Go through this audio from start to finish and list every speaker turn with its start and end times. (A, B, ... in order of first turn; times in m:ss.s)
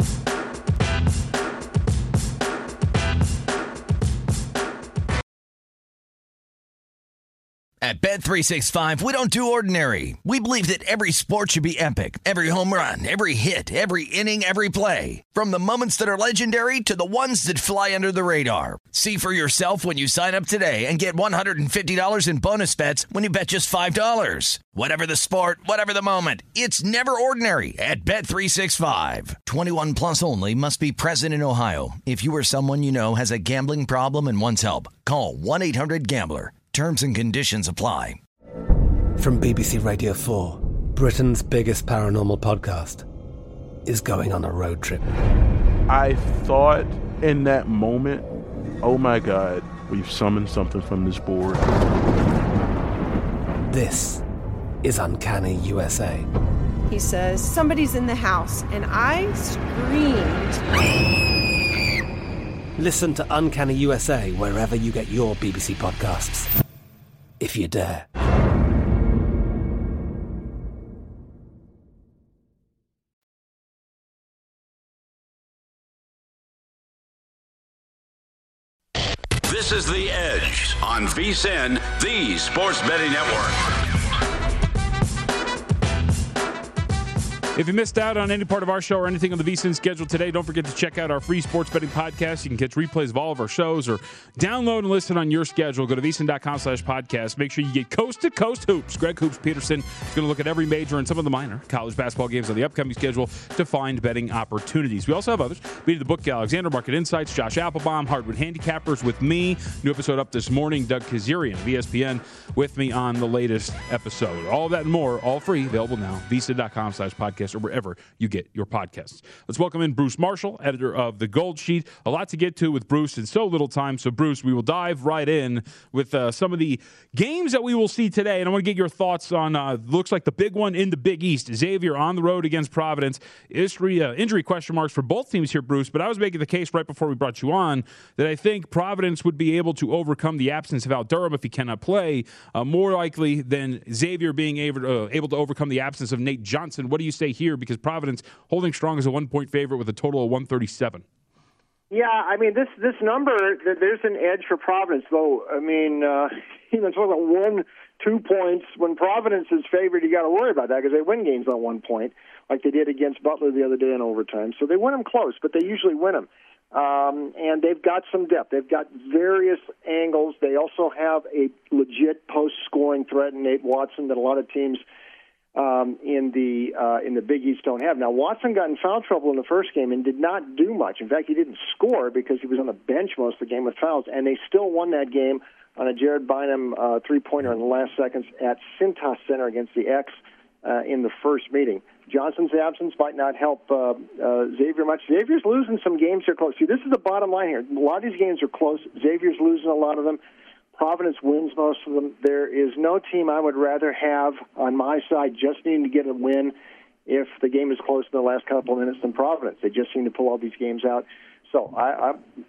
0:07.8-0:38.2 A
0:39.2-0:43.0 B
0:43.8-0:45.0 B
0:45.9-0:48.3 C
0:48.8-0:51.6 C
0:53.6-0:54.2 B
0:54.8-0:56.3 B
0:56.9-1:00.6 D
1:02.8-1:06.5 B
1:07.4-1:08.1 B
1:19.4-1:23.8 E
1:27.5-2:31.0 F
2:31.9-2:54.8 G
2:55.5-3:20.2 G
3:20.7-3:26.5 G
3:27.1-3:32.2 G